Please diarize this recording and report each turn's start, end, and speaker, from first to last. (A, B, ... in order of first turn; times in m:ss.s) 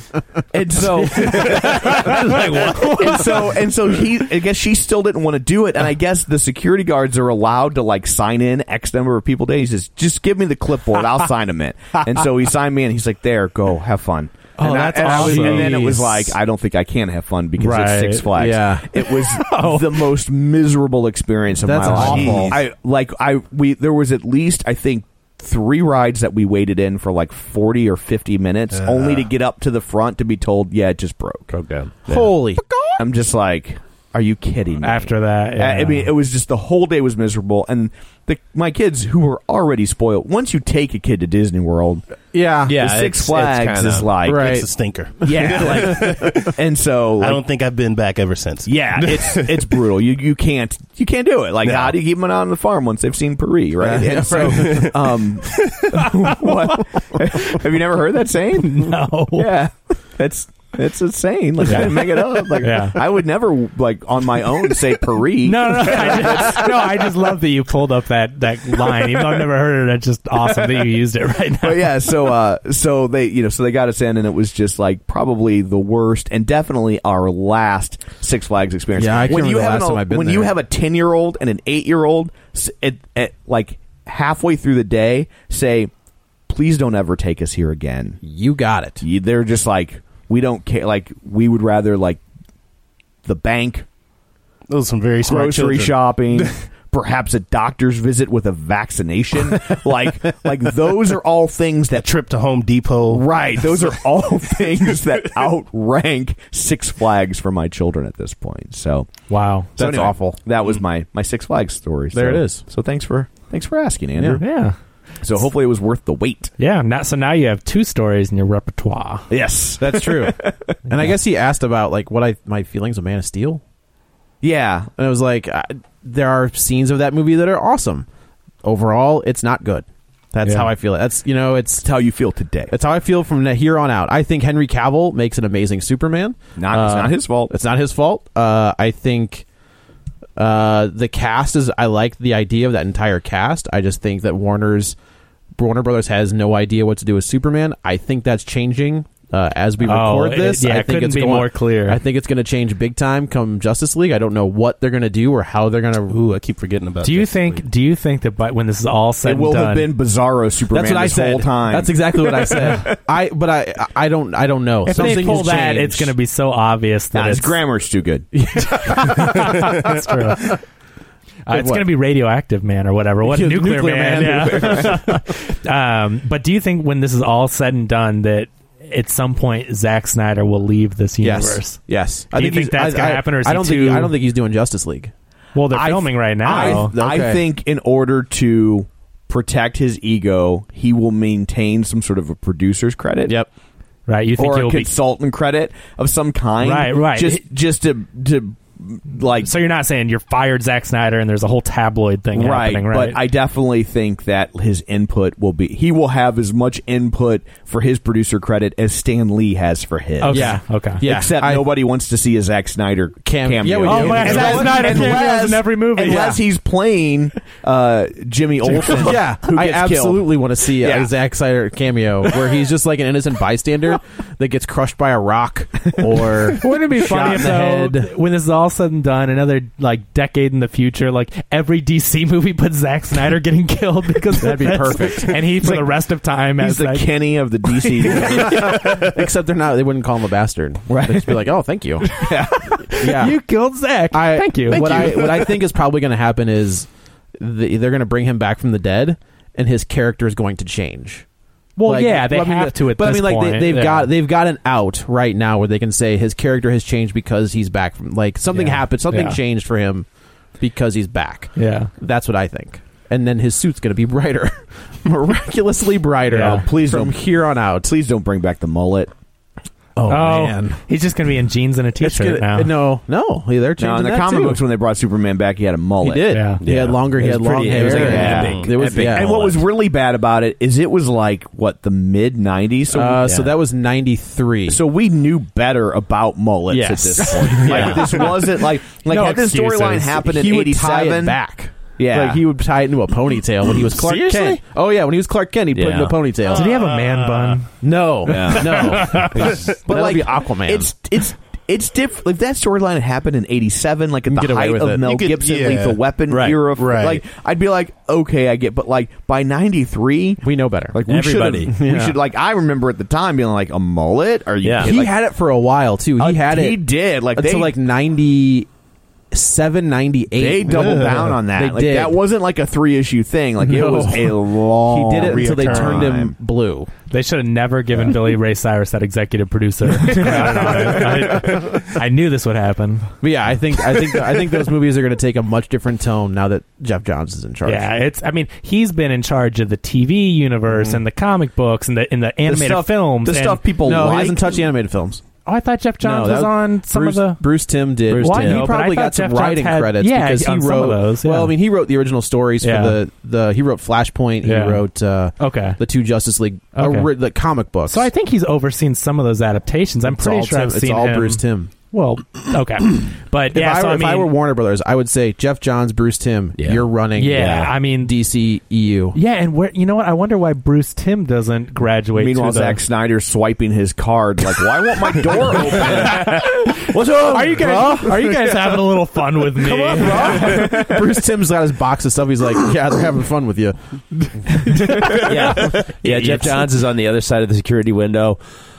0:00.5-0:31.5 A
0:01.3-0:03.4 B
0:14.6-0:16.3 C
0:14.6-0:15.9 D
0:17.6-0:18.3 C
0:18.3-0:18.9 D
0:19.0-0:20.1 C
0:21.6-0:22.6 D
0:22.0-0:22.3 C
0:28.8-0:29.2 E
0:31.5-0:32.3 B
0:32.1-0:32.6 D
0:33.0-0:42.0 A
0:34.8-0:36.1 C
0:42.3-0:42.8 D
0:42.6-0:44.1 B
0:42.8-0:44.6 A
0:44.2-0:44.7 D
0:44.3-0:46.6 E
0:45.2-0:47.4 A
0:47.2-0:49.8 E
0:48.6-1:07.1 A
0:51.6-0:51.9 E
0:53.9-0:55.0 E
0:54.0-0:54.9 D
0:55.5-0:55.8 E
0:55.9-0:56.8 C
0:58.6-0:59.5 C
1:01.6-1:03.0 C
1:05.4-1:12.0 C
1:11.6-1:25.9 A
1:18.9-1:20.5 D
1:26.5-1:28.2 A
1:28.2-1:29.0 D
1:29.0-1:32.2 A
1:33.2-1:33.8 A
1:34.7-1:36.5 E
1:35.2-1:42.1 A
1:42.0-1:43.2 E
1:43.1-1:49.1 A
1:49.3-1:49.7 C
1:49.8-1:50.4 D
1:49.8-1:54.5 A
1:52.1-1:52.6 D
1:54.2-1:54.4 D
1:54.3-1:54.8 C
1:55.2-1:56.5 A
1:56.6-1:59.3 C
1:59.3-2:00.8 A
1:59.8-2:03.6 D
2:04.4-2:04.9 A
2:05.0-2:08.1 D
2:08.6-2:11.9 D
2:10.4-2:10.7 C
2:11.8-2:12.7 A
2:12.7-2:19.4 D
2:16.6-2:17.5 A
2:20.4-2:25.0 D
2:25.6-2:36.2 D
2:29.8-2:32.0 C
2:36.1-2:37.6 E
2:37.0-2:39.9 C
2:39.2-2:42.9 A
2:40.7-2:46.1 D
2:44.8-2:47.6 C
2:45.0-2:45.6 A
2:47.1-2:49.1 A
2:48.4-2:49.7 D
2:49.0-2:50.6 C
2:51.5-3:01.8 C
2:51.5-2:51.9 D
2:53.2-2:55.2 D
3:01.2-3:05.1 D
3:02.3-3:04.2 C
3:05.5-3:06.9 C
3:05.7-3:13.4 A
3:05.8-3:07.4 D
3:14.1-3:14.9 C
3:14.4-3:19.5 A
3:16.6-3:17.4 C
3:19.4-3:23.2 C
3:22.3-3:41.1 A
3:30.2-3:31.0 C
3:30.2-3:31.7 D
3:33.2-3:35.3 D
3:33.8-3:36.4 C
3:38.7-3:48.1 D
3:46.6-3:57.1 C
3:54.3-3:55.7 D
3:56.6-3:59.0 A
3:57.6-3:58.5 C
3:58.1-4:02.2 D
4:00.9-4:01.4 A
4:02.0-4:03.1 A
4:02.9-4:03.4 D
4:03.0-4:05.4 C
4:04.1-4:11.2 D
4:04.7-4:05.4 A
4:11.8-4:14.1 C
4:11.8-4:20.0 D
4:18.5-4:19.4 C
4:20.6-4:27.9 D
4:21.6-4:21.9 C
4:26.3-4:26.7 C
4:26.4-4:27.2 A
4:27.8-4:29.1 A
4:30.0-4:30.8 D
4:30.1-4:32.7 C
4:32.0-4:34.6 D
4:33.8-4:36.4 A
4:36.0-4:39.4 D
4:36.3-4:36.6 C
4:36.6-4:39.6 B
4:37.7-4:43.4 A
4:38.3-4:38.7 E
4:42.9-4:44.8 D
4:44.7-4:51.4 A
4:46.7-4:48.3 B
4:47.2-4:48.6 D
4:49.1-4:50.1 C
4:49.2-4:56.8 D
4:52.0-4:52.4 A
4:55.7-4:56.2 B
4:56.5-4:57.7 C
4:57.8-5:00.9 D
4:58.2-4:59.0 A
4:58.5-4:59.5 C
4:59.8-5:15.1 A
5:04.3-5:05.3 D
5:05.0-5:06.0 E
5:06.3-5:06.6 B
5:06.7-5:07.2 E
5:10.4-5:11.0 D
5:11.1-5:11.7 B
5:11.6-5:12.2 D
5:14.6-5:14.9 B
5:14.8-5:18.7 D
5:16.2-5:17.7 A
5:19.3-5:22.2 D
5:20.3-5:26.3 A
5:20.7-5:21.3 E
5:23.6-5:26.9 D
5:25.2-5:26.0 E
5:27.1-5:33.1 C
5:30.0-5:31.6 D
5:33.2-5:37.9 D
5:37.6-5:43.6 C
5:40.7-5:41.0 D
5:42.4-5:44.6 A
5:43.8-5:45.2 D
5:45.4-5:47.4 C
5:46.0-5:58.1 D
5:48.1-5:48.7 B
5:48.2-5:51.6 C
5:52.6-5:53.0 C
5:54.4-5:54.8 C
5:55.4-5:55.8 C
5:56.7-5:57.1 C
5:57.8-6:04.3 C
6:00.0-6:01.7 D
6:03.5-6:09.2 D
6:06.6-6:07.7 B
6:07.2-6:08.2 C
6:09.1-6:12.8 C
6:12.1-6:16.4 A
6:15.8-6:18.0 B
6:16.2-6:16.6 C
6:17.2-6:20.6 C
6:17.4-6:18.6 D
6:19.5-6:26.6 D
6:20.3-6:21.0 A
6:25.1-6:28.4 B